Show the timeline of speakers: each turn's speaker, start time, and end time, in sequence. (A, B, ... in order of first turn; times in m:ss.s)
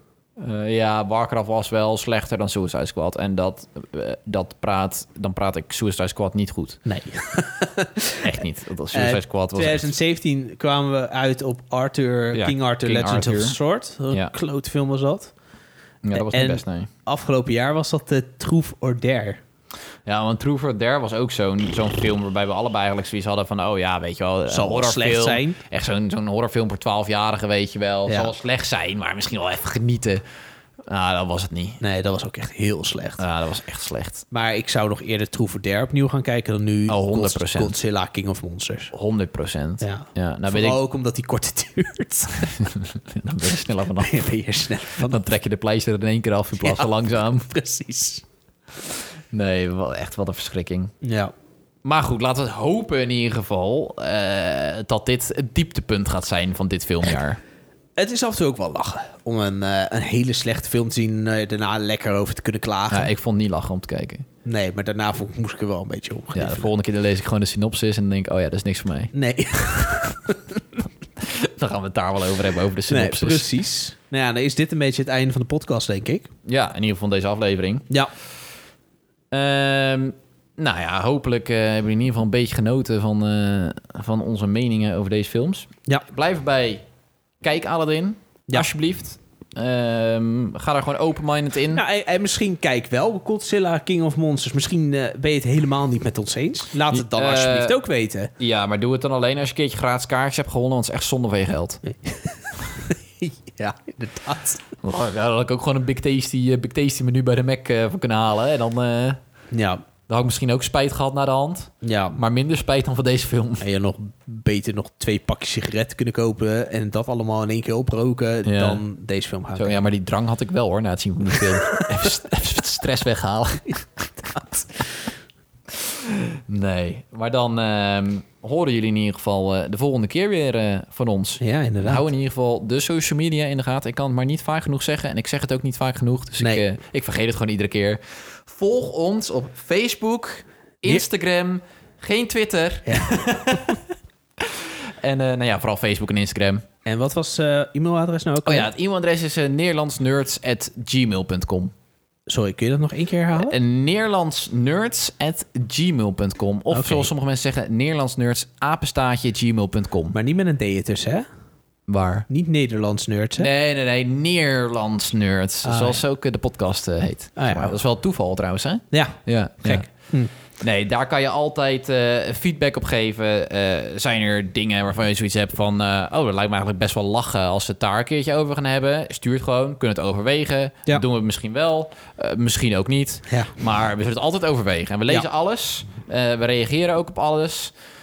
0:00.4-0:06.8 A
0:06.9-0:08.4 B
0:08.2-0:09.9 A
0:08.9-0:15.3 B
0:12.3-0:13.6 A
0:16.0-0:16.9 A
0:16.1-0:19.4 B
0:20.1-0:30.2 A
0:24.5-0:25.6 B
0:28.1-0:28.3 B
0:30.9-0:31.8 A
0:31.8-0:33.2 B
0:33.2-0:34.2 A
0:34.3-0:38.9 B
0:36.9-0:37.7 A
0:38.9-0:40.8 A
0:39.8-0:42.5 B
0:42.6-0:44.1 A
0:44.0-0:45.2 B
0:45.0-0:47.5 A
0:46.6-0:48.2 B
0:49.3-0:50.9 A
0:51.0-0:51.3 B
0:51.8-0:57.4 A
0:58.0-1:03.1 B
1:02.9-1:04.3 A
1:04.4-1:06.7 B
1:06.3-1:09.1 A
1:09.1-1:10.6 B
1:11.2-1:13.5 A
1:12.9-1:16.3 B
1:16.5-1:17.9 A
1:19.3-1:26.8 A
1:27.4-1:31.8 A
1:31.7-1:38.3 B
1:36.9-1:37.8 A
1:38.4-1:41.8 A
1:41.9-1:44.7 B
1:44.8-1:49.2 A
1:49.5-1:49.8 B
1:50.1-1:53.6 A
1:51.8-1:52.2 B
1:53.6-1:59.8 B
1:58.4-1:58.8 A
1:59.6-2:04.7 A
2:05.7-2:23.8 A
2:11.4-2:12.0 B
2:22.9-2:23.1 B
2:24.4-2:26.6 A
2:26.8-2:28.7 B
2:28.4-2:31.7 A
2:32.3-2:33.6 B
2:33.4-2:40.2 A
2:36.7-2:37.1 B
2:40.1-2:41.3 B
2:41.9-2:42.3 A
2:42.3-2:43.5 B
2:43.4-2:49.9 A
2:45.6-2:46.0 B
2:47.4-2:47.8 B
2:48.9-2:50.3 B
2:50.6-3:07.7 A
3:03.3-3:03.5 B